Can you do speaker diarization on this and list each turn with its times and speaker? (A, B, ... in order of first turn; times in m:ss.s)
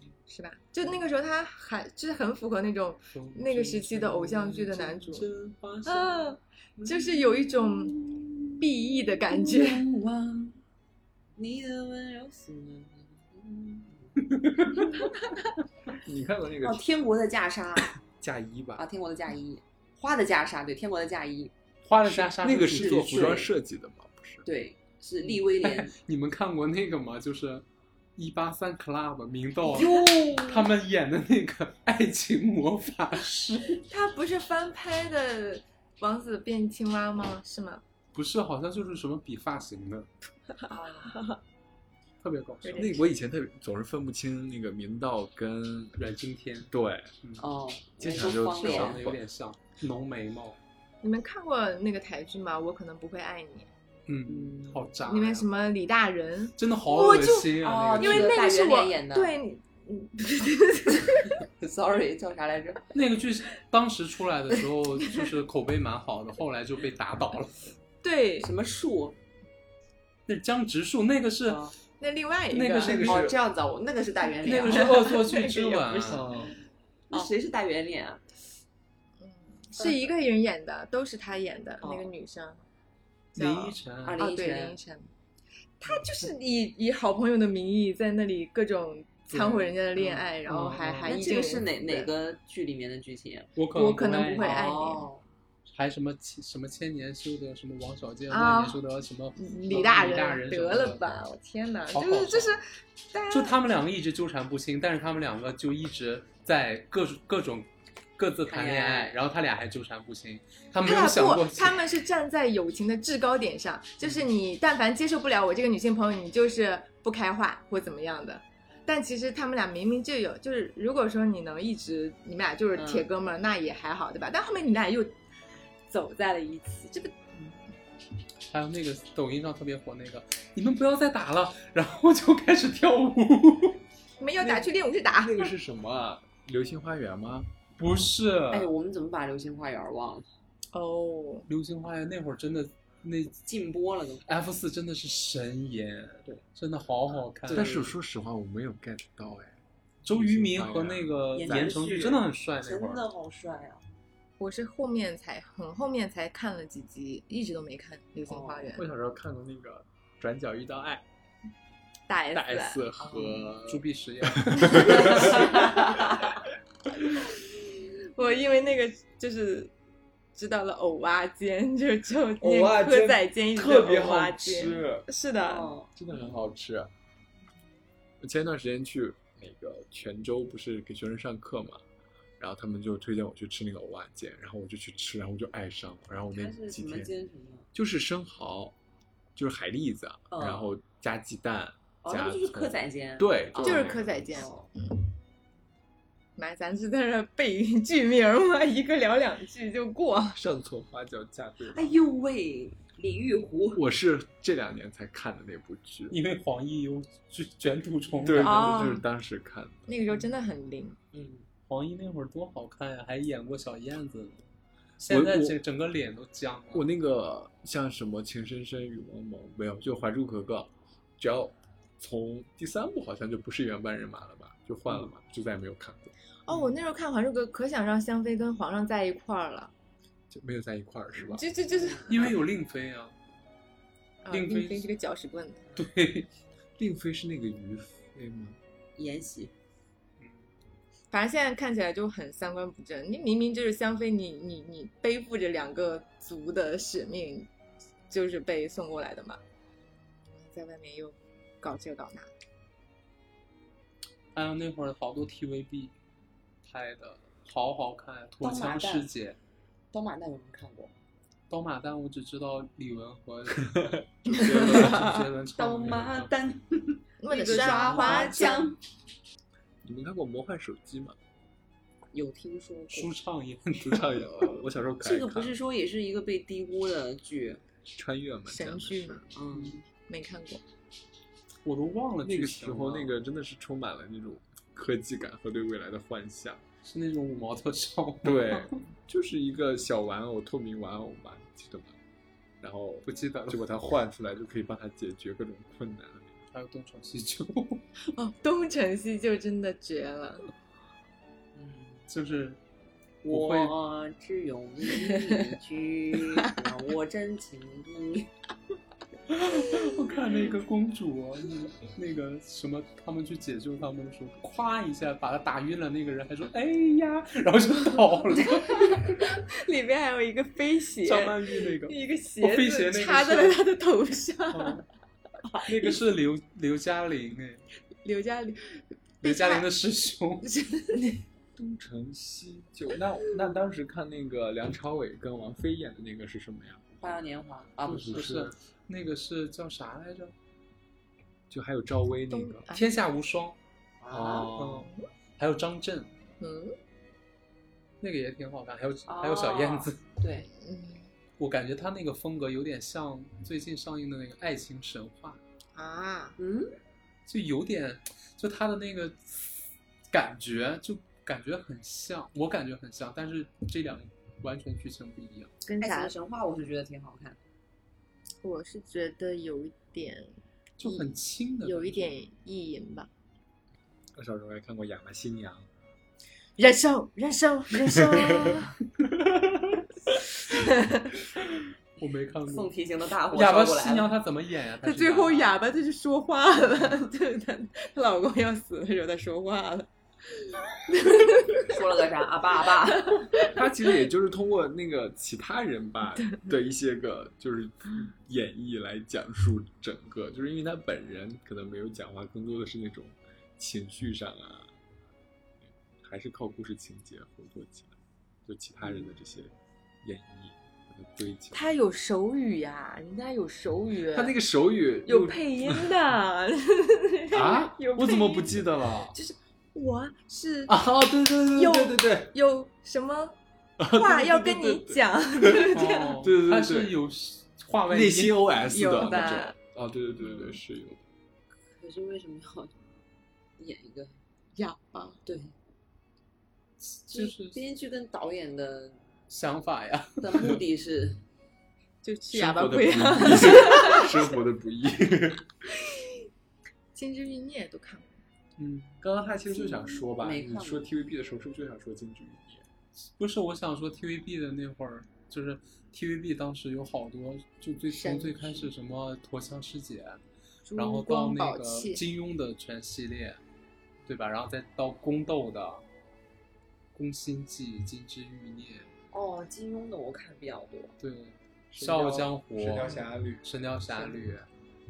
0:00.3-0:05.3 A
0:03.1-0:06.2 B
0:05.8-0:08.0 A
0:06.8-0:10.6 C
0:08.6-0:09.8 A
0:11.4-0:14.2 C
0:14.2-0:15.0 B
0:14.7-0:15.1 C
0:15.9-0:16.9 D
0:16.6-0:18.0 C
0:18.0-0:18.8 D
0:18.8-0:23.5 C
0:21.8-0:23.5 B
0:22.4-0:24.5 D
0:24.5-0:25.9 C
0:25.2-0:27.6 B
0:28.2-0:33.8 B
0:29.6-0:30.7 C
0:33.9-0:37.8 A
0:38.1-0:40.1 B
0:40.7-0:41.4 A
0:40.7-0:41.1 C
0:42.2-0:43.0 B
0:42.6-0:43.0 A
0:42.8-0:46.0 D
0:46.0-0:47.4 B
0:46.7-0:47.1 D
0:47.4-0:49.0 C
0:48.0-0:49.2 D
0:48.1-0:50.6 B
0:51.0-0:53.7 A
0:54.1-0:55.5 B
0:54.3-0:54.9 C
0:55.1-1:01.4 A
0:56.6-0:58.4 B
0:57.4-0:59.4 C
1:01.4-1:02.8 C
1:02.9-1:07.7 B
1:08.0-1:08.5 A
1:08.4-1:09.2 C
1:10.3-1:11.7 B
1:11.4-1:11.7 C
1:12.0-1:13.1 A
1:12.5-1:13.3 B
1:12.8-1:13.4 D
1:13.0-1:16.5 C
1:14.4-1:16.3 B
1:14.5-1:16.0 A
1:16.1-1:16.6 D
1:17.1-1:18.2 C
1:19.2-1:22.6 A
1:21.8-1:22.1 C
1:23.4-1:25.1 A
1:23.4-1:24.3 B
1:24.0-1:24.8 C
1:25.8-1:32.1 A
1:29.3-1:29.7 B
1:30.4-1:31.2 B
1:31.0-1:33.5 C
1:33.6-1:34.6 B
1:33.7-1:35.1 A
1:34.3-1:35.2 C
1:35.7-1:41.1 B
1:38.3-1:38.8 A
1:39.4-1:43.6 A
1:41.9-1:42.6 B
1:43.3-1:51.8 B
1:48.5-1:49.2 C
1:50.8-2:05.2 A
2:02.8-2:03.1 C
2:05.9-2:07.3 A
2:08.5-2:13.8 B
2:14.2-2:15.5 A
2:14.4-2:17.5 D
2:17.8-2:18.7 B
2:18.5-2:20.3 C
2:20.7-2:21.5 A
2:21.5-2:23.4 B
2:23.5-2:24.2 C
2:24.2-2:27.7 B
2:27.4-2:27.9 C
2:27.5-2:32.1 D
2:30.0-2:33.0 B
2:31.3-2:33.8 C
2:34.4-2:38.9 A
2:38.3-2:38.8 C
2:38.8-2:41.0 D
2:42.1-2:42.8 A
2:42.3-2:45.8 D
2:43.0-2:43.5 C
2:43.6-2:45.6 B
2:44.8-2:46.3 C
2:47.3-2:49.7 A
2:50.4-2:55.8 A
2:52.4-2:55.1 D
2:55.4-2:55.9 C
2:56.0-2:56.9 D
2:58.2-3:01.8 D
3:02.4-3:07.1 D
3:06.3-3:07.7 C
3:07.8-3:08.8 D
3:09.4-3:14.2 D
3:10.3-3:10.7 C
3:12.0-3:14.7 C
3:13.6-3:15.1 A
3:16.4-3:20.4 A
3:20.4-3:22.0 D
3:21.7-3:23.8 C
3:23.8-3:26.2 D
3:26.1-3:28.9 B
3:28.2-3:30.0 D
3:28.4-3:29.1 A
3:29.9-3:31.0 A
3:31.1-3:31.5 C
3:31.7-3:34.4 B
3:35.0-3:36.9 B
3:35.1-3:35.6 D
3:36.7-3:46.1 D
3:46.5-3:49.7 A
3:50.3-3:51.4 D
3:51.2-3:52.4 A
3:51.7-3:52.3 C
3:52.1-3:53.2 B
3:54.2-3:55.7 A
3:54.3-3:54.9 B
3:55.8-3:56.3 B
3:56.8-3:58.6 D
3:59.0-3:59.5 C
4:00.2-4:00.5 B
4:01.1-4:07.5 A
4:08.1-4:09.4 A
4:10.3-4:12.3 A
4:14.3-4:15.9 B
4:16.6-4:19.4 B
4:18.4-4:19.1 C
4:19.9-4:20.9 C
4:21.5-4:26.3 B
4:23.8-4:25.2 D
4:24.3-4:25.2 A
4:25.6-4:28.8 C
4:27.2-4:28.7 A
4:27.5-4:28.6 B
4:29.8-4:31.2 D
4:32.1-4:33.1 C
4:32.9-4:34.3 B
4:33.8-4:35.6 D
4:35.0-4:37.6 C
4:37.9-4:39.2 D
4:38.5-4:39.3 A
4:39.3-4:39.8 C
4:39.5-4:39.8 B
4:40.1-4:40.6 A
4:41.6-4:43.2 B
4:42.2-4:46.6 D
4:46.8-4:48.8 B
4:48.2-4:52.0 D
4:52.6-4:56.4 D
4:53.0-4:53.6 B
4:56.5-4:57.8 B
4:58.1-5:00.5 A
5:01.6-5:02.1 C
5:02.1-5:02.6 B
5:03.2-5:08.3 C
5:03.3-5:03.8 B
5:09.3-5:19.0 B
5:18.5-5:24.8 A
5:21.0-5:23.6 B
5:24.5-5:24.8 B
5:25.4-5:26.0 A
5:25.6-5:27.6 B
5:28.0-5:29.7 A
5:29.2-5:30.4 B
5:30.4-5:31.2 A
5:31.6-5:36.8 D
5:37.0-5:38.3 C
5:37.8-5:38.5 D
5:37.9-5:40.3 B
5:41.5-5:42.7 D
5:42.3-5:43.0 A
5:42.7-5:43.6 B
5:44.0-5:44.5 C
5:44.1-5:44.9 D
5:44.5-5:46.1 B
5:46.4-5:46.8 A
5:48.0-5:50.0 B
5:49.1-5:50.5 C
5:50.6-5:51.1 A
5:51.4-5:55.4 B
5:55.8-5:56.4 A
5:56.4-5:56.8 C
5:57.3-6:05.5 B
6:05.6-6:06.1 A
6:05.8-6:07.4 C
6:08.4-6:10.3 A
6:10.8-6:12.2 B
6:10.8-6:11.1 A
6:11.6-6:13.1 A
6:14.2-6:15.7 D
6:16.6-6:18.8 A
6:18.1-6:18.6 D
6:20.4-6:21.2 A
6:22.0-6:22.7 B
6:22.5-6:24.1 C
6:23.3-6:25.5 B
6:24.8-6:31.8 A
6:31.6-6:33.3 C
6:33.0-6:33.6 A
6:33.4-6:44.7 D
6:46.0-6:47.9 D
6:48.5-6:51.6 D
6:51.5-6:54.4 A
6:54.1-6:55.9 D
6:55.1-6:58.6 A
6:57.3-6:59.2 D
6:59.1-7:00.8 A
7:00.7-7:02.3 D
7:01.5-7:03.4 A
7:03.8-7:06.9 D
7:03.9-7:06.2 A
7:05.7-7:09.3 B
7:07.9-7:11.1 D
7:08.7-7:09.6 A
7:10.2-7:10.6 C
7:11.7-7:12.8 C
7:13.6-7:14.2 C
7:14.6-7:15.2 A
7:15.3-7:15.5 C
7:16.9-7:17.6 B
7:17.1-7:19.0 C
7:19.3-7:20.6 B
7:20.2-7:21.2 C
7:22.0-7:24.1 A
7:22.3-7:25.5 D
7:25.7-7:26.2 A
7:27.0-7:28.2 A
7:28.6-7:29.0 B
7:29.0-7:32.6 D
7:30.2-7:30.9 C
7:33.0-7:40.2 B
7:37.9-7:38.7 A
7:40.7-7:42.0 A
7:40.8-7:43.4 B
7:44.1-7:45.8 B
7:47.0-7:48.9 B
7:49.1-7:50.9 C
7:51.0-7:54.5 B
7:51.7-7:53.5 D